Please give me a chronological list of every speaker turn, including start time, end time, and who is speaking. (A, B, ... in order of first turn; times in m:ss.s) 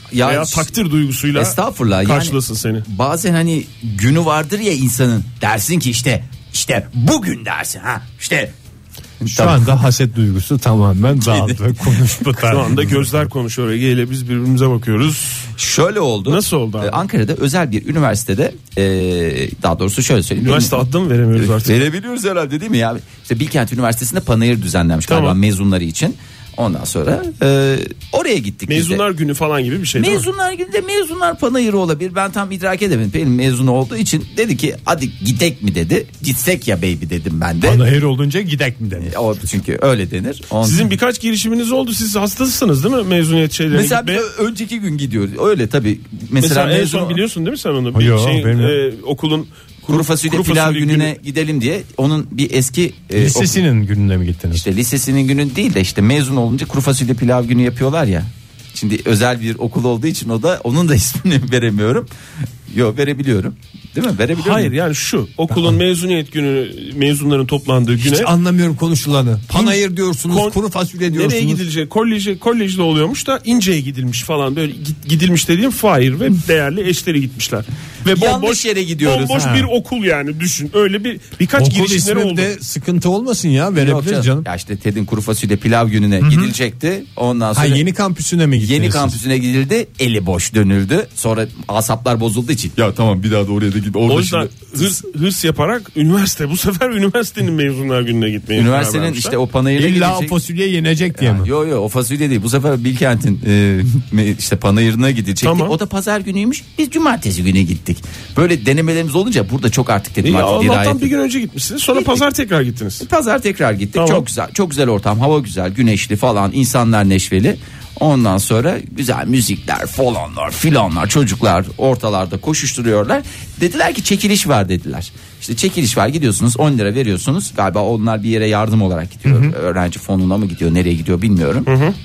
0:00.1-0:00.7 A
0:00.2-0:02.8 B
0:01.3-0:08.5 A
0:09.2-0:09.8 A
0:09.3-0:13.1 C
0:11.2-0:11.6 A
0:12.5-0:15.5 B
0:15.6-0:20.8 A
0:16.2-0:17.0 B
0:20.4-0:21.9 B
0:21.4-0:29.0 A
0:25.1-0:25.4 B
0:28.7-0:30.3 B
0:30.0-0:37.8 A
0:37.6-0:39.2 C
0:39.0-0:40.9 A
0:40.6-0:44.2 B
0:43.7-0:47.2 A
0:46.4-0:51.1 B
0:47.9-0:48.8 C
0:49.9-0:53.6 A
0:53.2-0:54.6 C
0:54.6-1:02.1 A
1:02.7-1:04.7 A
1:04.4-1:08.3 B
1:05.5-1:05.8 C
1:08.0-1:11.6 C
1:09.5-1:22.5 B
1:18.1-1:19.6 A
1:19.4-1:19.7 C
1:21.6-1:24.5 C
1:23.8-1:27.8 A
1:26.2-1:26.5 C
1:27.5-1:29.2 C
1:28.6-1:35.0 A
1:34.1-1:39.4 B
1:38.6-1:40.4 A
1:39.8-1:41.5 C
1:41.2-1:51.1 A
1:45.4-1:45.8 B
1:50.2-1:53.1 B
1:51.9-1:52.2 A
1:53.0-2:11.7 A
1:54.0-1:54.3 B
2:09.3-2:09.5 C
2:11.7-2:12.0 B